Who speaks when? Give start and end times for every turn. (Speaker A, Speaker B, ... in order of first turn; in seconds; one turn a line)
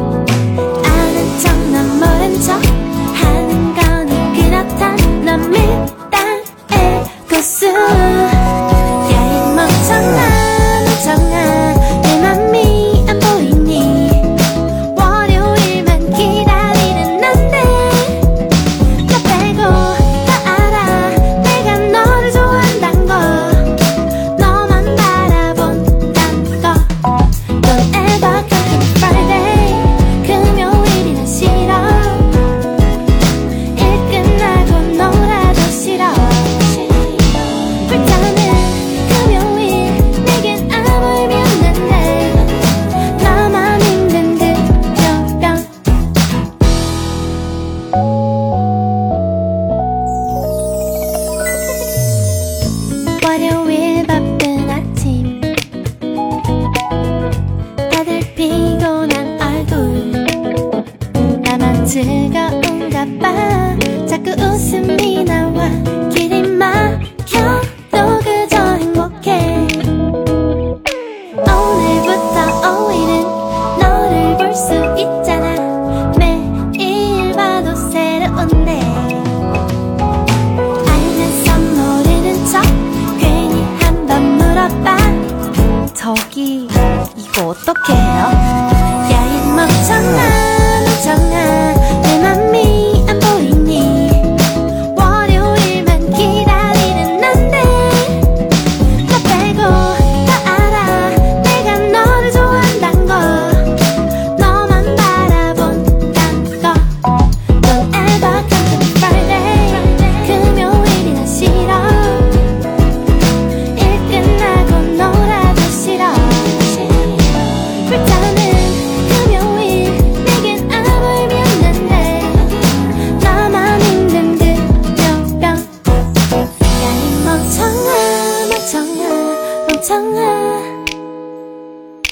Speaker A: 0.8-32.5
Speaker A: 33.7-45.7
Speaker A: 53.2-55.5
Speaker A: 57.9-60.4
Speaker A: 61.1-70.0
Speaker A: 71.4-79.3
Speaker A: 80.8-85.3
Speaker A: 85.9-112.4
Speaker A: 113.6-125.8
Speaker A: 126.6-130.9